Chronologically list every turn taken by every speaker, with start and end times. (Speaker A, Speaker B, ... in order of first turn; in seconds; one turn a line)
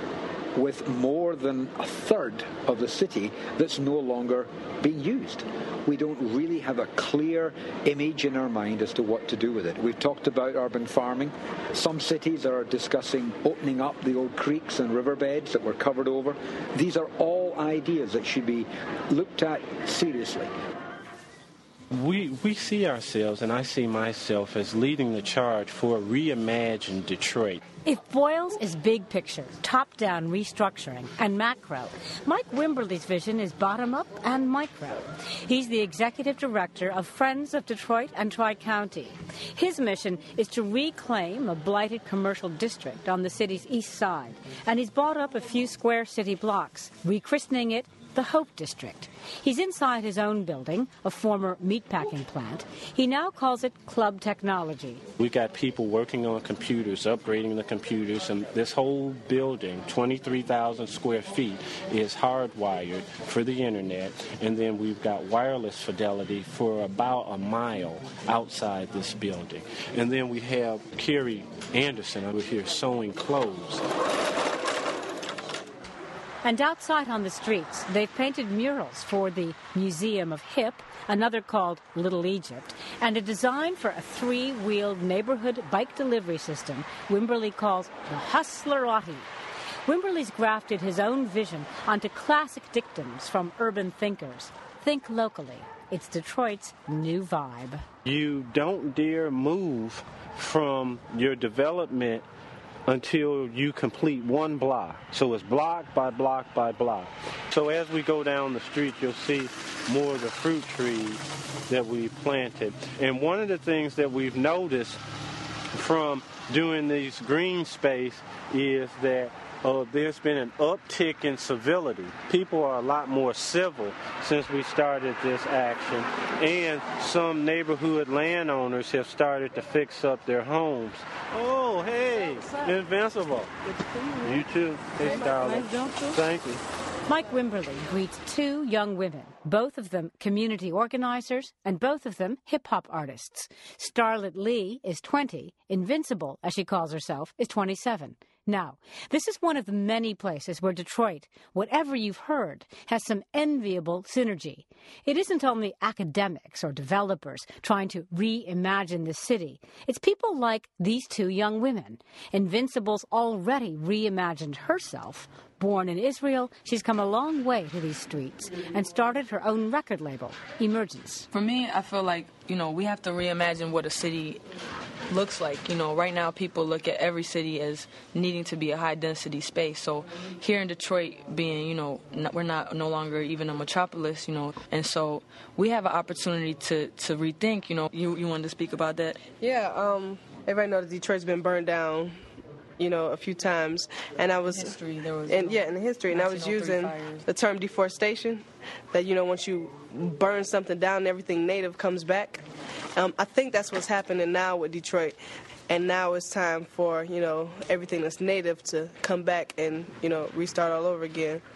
Speaker A: 0.6-20.5
Speaker B: 21.9-27.6
Speaker C: 27.9-55.0
Speaker B: 55.2-73.9
Speaker C: 76.4-89.3
Speaker C: 89.9-97.8
Speaker B: 98.0-102.3
Speaker B: 102.9-115.0
Speaker B: 115.7-133.5
Speaker B: 134.2-136.6
Speaker C: 137.1-171.3
Speaker D: 171.3-174.4
Speaker D: 175.1-189.2
Speaker E: 189.4-211.4
Speaker D: 194.4-197.2